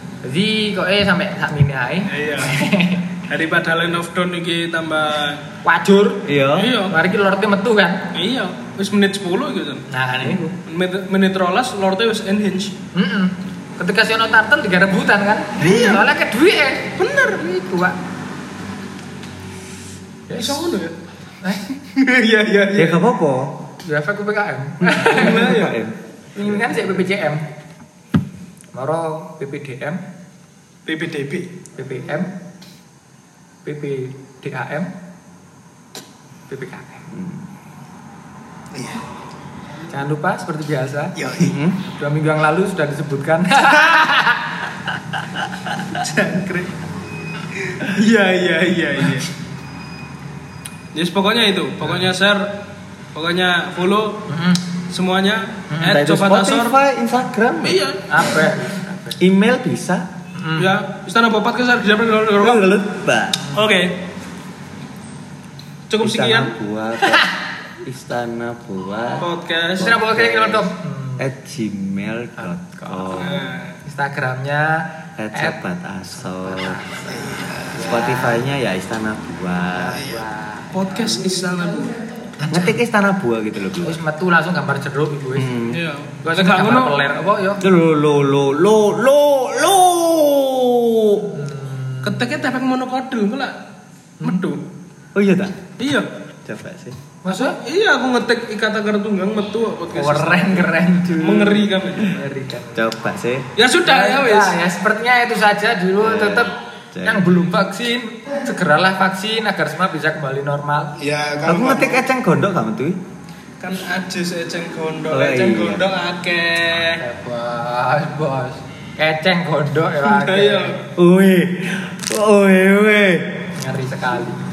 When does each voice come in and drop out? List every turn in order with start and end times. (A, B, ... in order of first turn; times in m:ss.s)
0:00.2-0:03.2 A
0:02.1-0:02.6 B
0:03.3-0:05.4 B
0:05.6-0:06.3 A
0:06.2-0:06.8 C
0:06.6-0:07.0 B
0:06.9-0:08.1 A
0:08.1-0:09.9 B
0:09.9-0:10.6 A
0:10.6-0:12.8 B
0:12.9-0:18.0 A
0:15.6-0:16.1 B
0:17.0-0:17.4 B
0:20.3-0:20.7 A
0:20.4-0:20.9 B
0:21.8-0:23.0 B
0:22.7-0:23.7 C
0:23.8-0:25.5 A
0:24.8-0:25.8 B
0:25.0-0:27.0 C
0:26.4-0:27.4 A
0:28.7-0:30.0 A
0:30.9-0:31.5 B
0:31.8-0:32.3 A
0:33.6-0:34.9 A
0:36.5-0:37.1 A
0:37.1-0:37.4 C
0:38.7-0:39.0 B
0:39.9-0:41.2 A
0:41.2-0:41.5 B
0:41.4-0:41.8 C
0:41.9-0:44.6 A
0:45.9-0:46.7 B
0:47.6-0:49.3 B
0:50.9-0:52.6 B
0:51.8-0:52.1 A
0:53.1-0:54.3 B
0:54.3-0:54.6 A
0:54.9-0:56.7 B
0:55.8-0:58.5 C
0:57.6-0:58.3 B
0:58.1-0:59.2 A
0:59.2-1:00.1 C
1:00.4-1:00.8 A
1:00.6-1:02.7 B
1:02.4-1:03.5 C
1:03.5-1:04.0 B
1:05.9-1:06.5 B
1:06.0-1:07.3 C
1:07.8-1:10.7 C
1:09.2-1:09.9 B
1:09.8-1:11.3 A
1:11.2-1:13.4 C
1:12.4-1:15.6 A
1:13.1-1:13.8 B
1:15.2-1:17.1 C
1:16.2-1:18.4 A
1:17.2-1:17.7 B
1:17.8-1:20.1 C
1:19.7-1:21.2 A
1:20.7-1:22.0 B
1:22.4-1:22.8 A
1:22.5-1:24.0 C
1:23.8-1:25.6 A
1:25.4-1:25.8 C
1:25.7-1:27.0 B
1:26.2-1:27.6 A
1:27.6-1:31.3 C
1:31.3-1:32.3 A
1:32.0-1:33.6 B
1:34.2-1:34.6 B
1:35.2-1:35.7 C
1:35.8-1:36.1 B
1:36.4-1:37.0 C
1:37.2-1:37.6 A
1:37.3-1:42.2 B
1:40.0-1:42.9 A
1:42.8-1:43.5 C
1:43.6-1:44.6 B
1:43.8-1:50.9 A
1:46.0-1:47.4 C
1:51.0-1:52.0 B
1:51.4-1:53.0 C
1:53.6-1:57.0 B
1:55.1-1:55.9 C
1:56.8-2:00.8 A
2:00.0-2:00.8 B
2:01.0-2:03.5 C
2:03.6-2:04.4 A